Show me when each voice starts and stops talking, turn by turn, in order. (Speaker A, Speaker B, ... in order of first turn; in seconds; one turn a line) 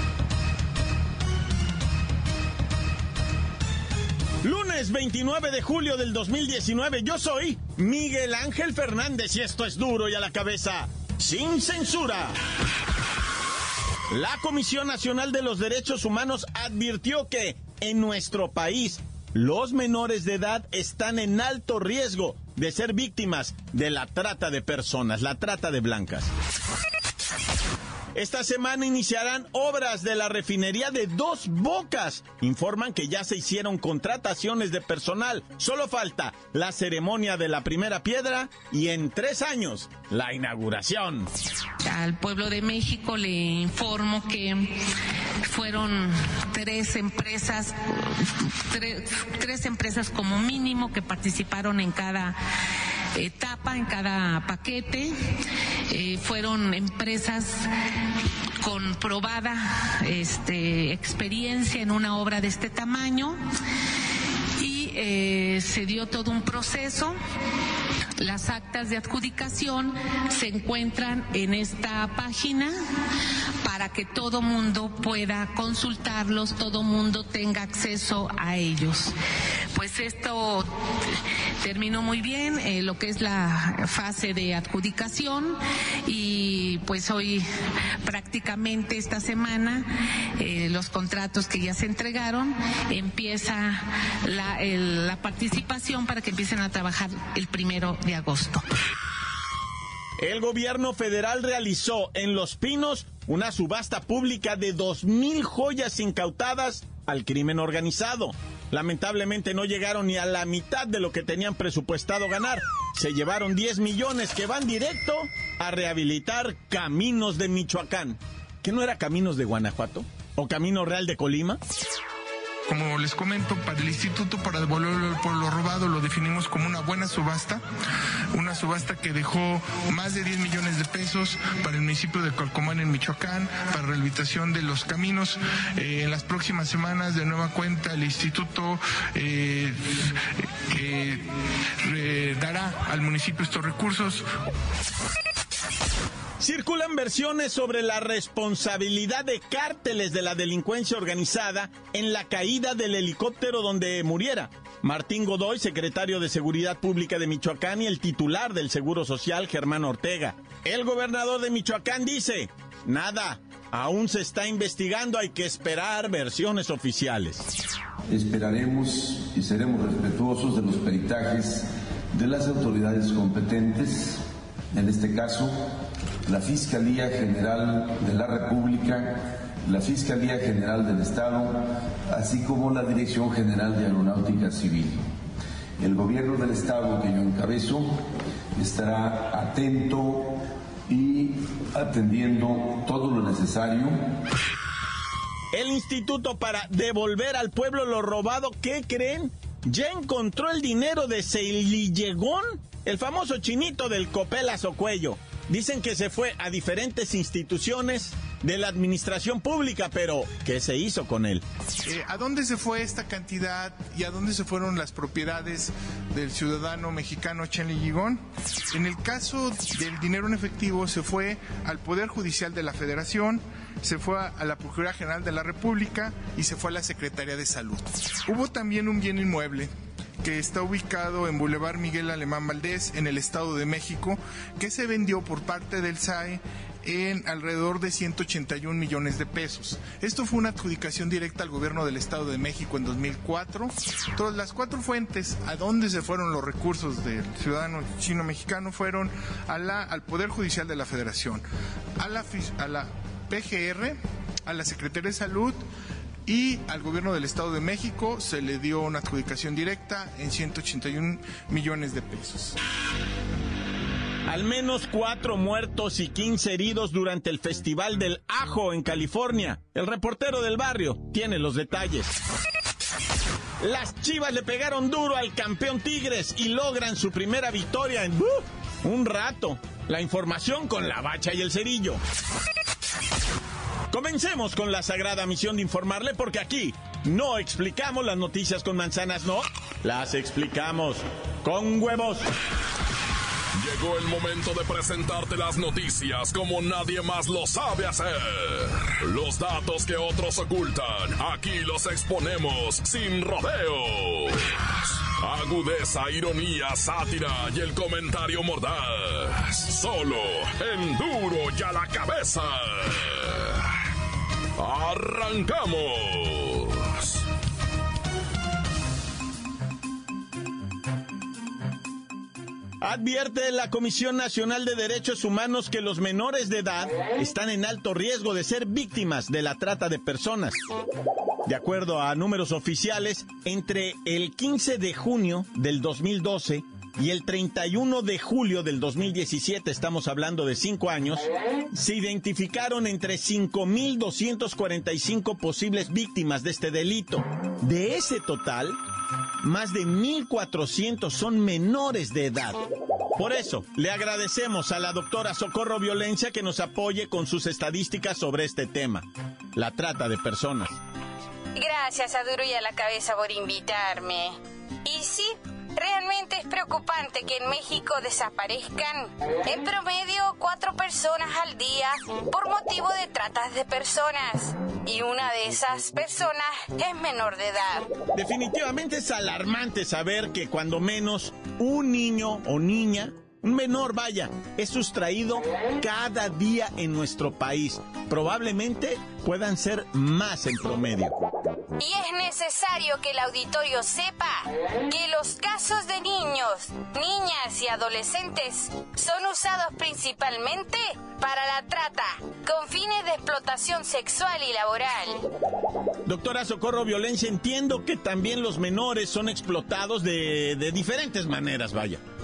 Speaker A: 4.4-12.3
Speaker A: 14.1-26.3
Speaker A: 28.1-41.3
Speaker B: 41.8-44.8
Speaker B: 45.4-52.4
Speaker B: 53.1-55.1
Speaker B: 55.9-57.6
Speaker B: 58.6-63.4
Speaker B: 64.6-67.2
Speaker B: 68.2-72.7
Speaker B: 73.6-79.1
Speaker B: 79.7-80.7
Speaker B: 81.6-87.5
Speaker B: 88.0-89.9
Speaker B: 90.4-98.6
Speaker A: 100.2-121.6
Speaker C: 122.7-127.6
Speaker C: 128.3-140.1
Speaker C: 140.7-141.2
Speaker C: 141.8-144.2
Speaker A: 146.4-167.5
Speaker D: 168.1-174.2
Speaker D: 174.7-175.5
Speaker D: 176.2-185.0
Speaker D: 185.8-187.9
Speaker D: 188.5-194.0
Speaker A: 195.5-211.4
Speaker C: 211.8-229.7
Speaker C: 230.2-251.4
Speaker C: 252.0-255.6
Speaker C: 256.2-262.6
Speaker A: 264.3-272.1
Speaker A: 273.6-282.0
Speaker A: 283.9-292.2
Speaker E: 293.5-313.7
Speaker E: 314.6-317.2
Speaker A: 322.8-330.6
Speaker A: 331.4-348.8
Speaker A: 349.4-352.6
Speaker A: 353.2-360.8
Speaker F: 361.5-377.9
Speaker A: 378.1-391.1
Speaker F: 391.8-405.2
Speaker A: 406.1-412.0